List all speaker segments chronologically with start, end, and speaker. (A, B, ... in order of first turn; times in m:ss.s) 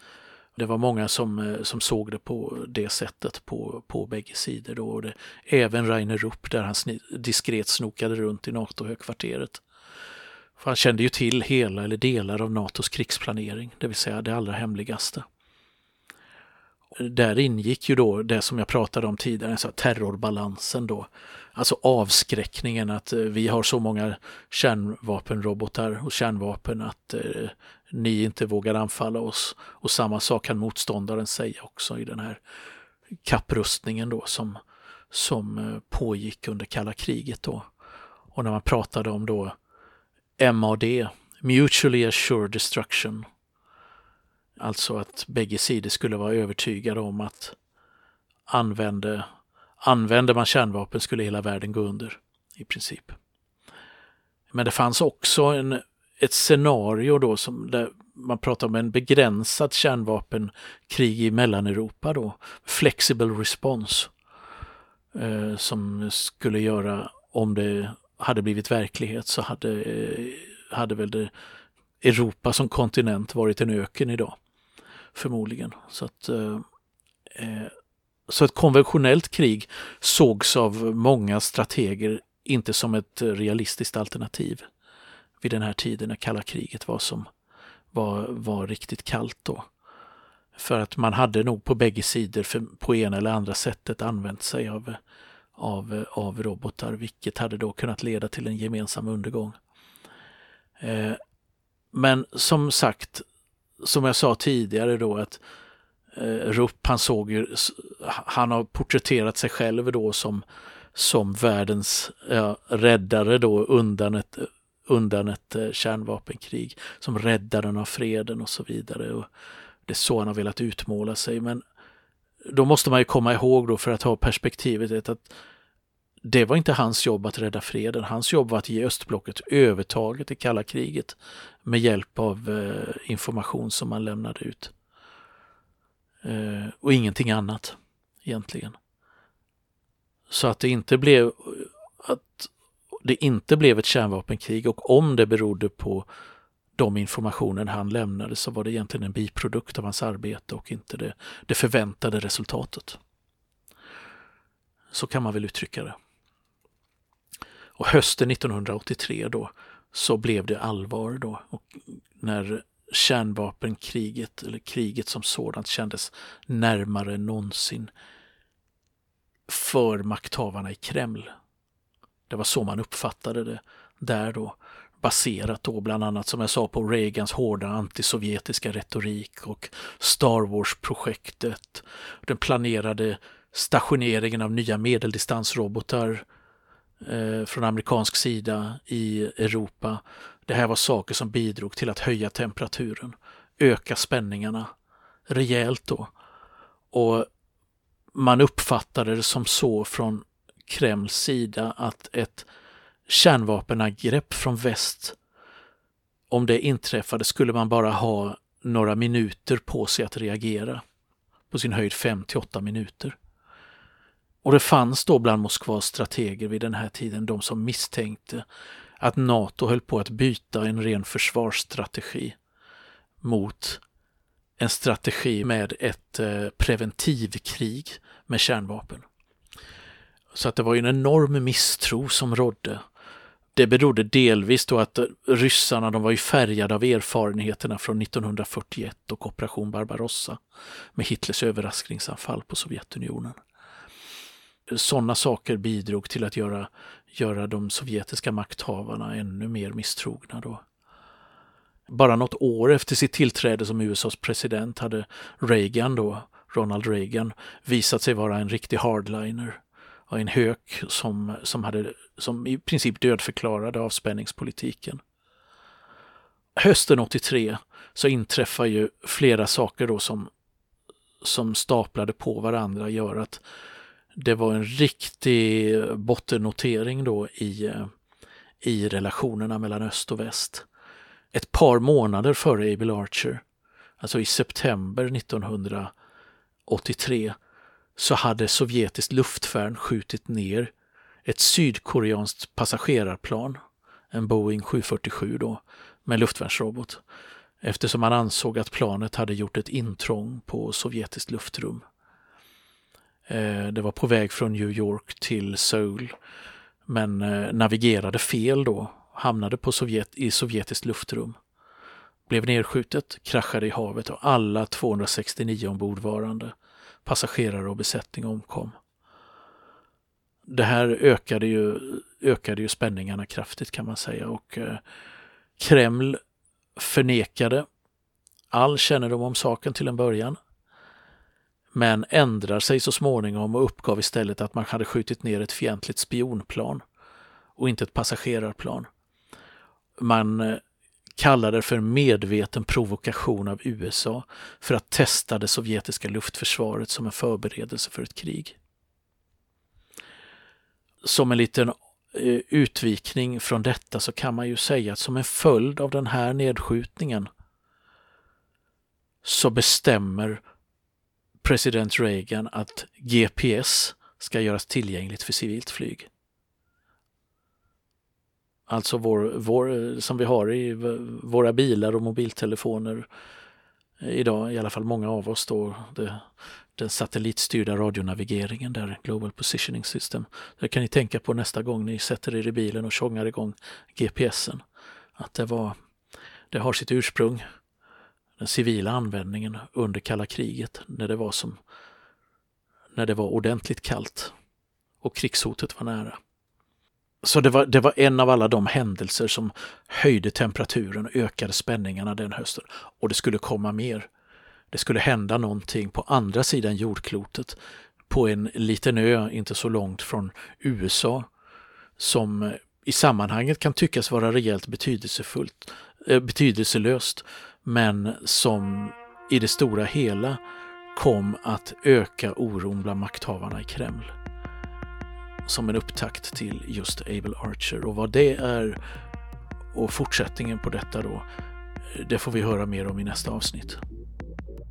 0:00.6-0:09.6 A
0:10.6-0:15.2 A
0:16.9-0:32.4 A
0:33.2-0:34.6 A
0:35.1-0:37.6 A
0:38.3-0:39.5 A
0:40.4-0:43.2 A
0:44.6-0:47.6 A
0:48.5-0:49.2 A
0:49.8-0:53.2 A
0:54.5-1:04.1 A
1:05.1-1:11.3 A
1:12.0-1:14.4 A
1:15.1-1:16.6 A
1:17.3-1:17.7 A
1:18.3-1:24.6 A
1:25.4-1:27.3 A
1:27.9-1:29.6 A
1:30.6-1:35.0 A
1:35.6-1:39.6 A
1:40.8-1:41.2 A
1:41.9-1:43.2 A
1:43.8-1:45.4 A
1:46.1-1:50.4 A
1:50.9-1:59.3 A
1:59.8-2:01.6 A
2:02.4-2:05.4 A
2:06.2-2:14.7 A
2:16.2-2:18.8 A
2:20.3-2:22.5 A
2:23.0-2:26.1 A
2:26.8-2:33.0 A
2:34.9-2:35.9 A
2:37.8-2:47.9 A
2:49.5-2:51.3 A
2:52.3-3:06.2 A
3:07.0-3:14.7 A
3:15.3-3:16.1 A
3:16.9-3:17.3 A
3:18.1-3:22.5 A
3:23.1-3:25.2 A
3:26.3-3:30.8 A
3:31.5-3:33.2 A
3:34.4-3:38.4 A
3:39.0-3:42.4 A
3:43.2-3:43.8 A
3:44.6-3:49.0 A
3:50.3-3:52.8 A
3:53.5-4:00.4 A
4:01.0-4:03.4 A
4:04.7-4:10.6 A
4:11.9-4:25.0 A
4:26.6-4:30.3 A
4:31.2-4:33.4 A
4:34.1-4:37.9 A
4:38.6-4:40.6 A
4:41.3-4:43.4 A
4:44.0-4:45.9 A
4:46.7-4:47.4 A
4:48.0-4:50.7 A
4:51.2-4:53.6 A
4:54.1-4:57.0 A
4:57.6-5:01.8 A
5:03.3-5:06.2 A
5:06.8-5:11.4 A
5:12.3-5:16.5 A
5:17.0-5:18.7 A
5:20.5-5:24.8 A
5:25.6-5:26.2 A
5:26.8-5:27.6 A
5:28.5-5:30.4 A
5:31.7-5:36.8 A
5:37.6-5:38.9 A
5:40.0-5:40.6 A
5:41.2-5:48.6 A
5:51.0-5:57.3 A
5:59.2-6:00.4 A
6:01.4-6:06.1 A
6:08.7-6:13.1 A
6:14.0-6:24.6 A
6:25.2-6:25.7 A
6:26.5-6:27.4 A
6:28.4-6:31.6 A
6:32.9-6:34.3 A
6:35.0-6:36.2 A
6:37.2-6:44.1 A
6:44.7-6:47.6 A
6:48.1-6:51.3 A
6:52.0-7:00.4 A
7:00.9-7:04.1 A
7:05.4-7:08.8 A
7:09.7-7:11.2 A
7:11.9-7:13.8 A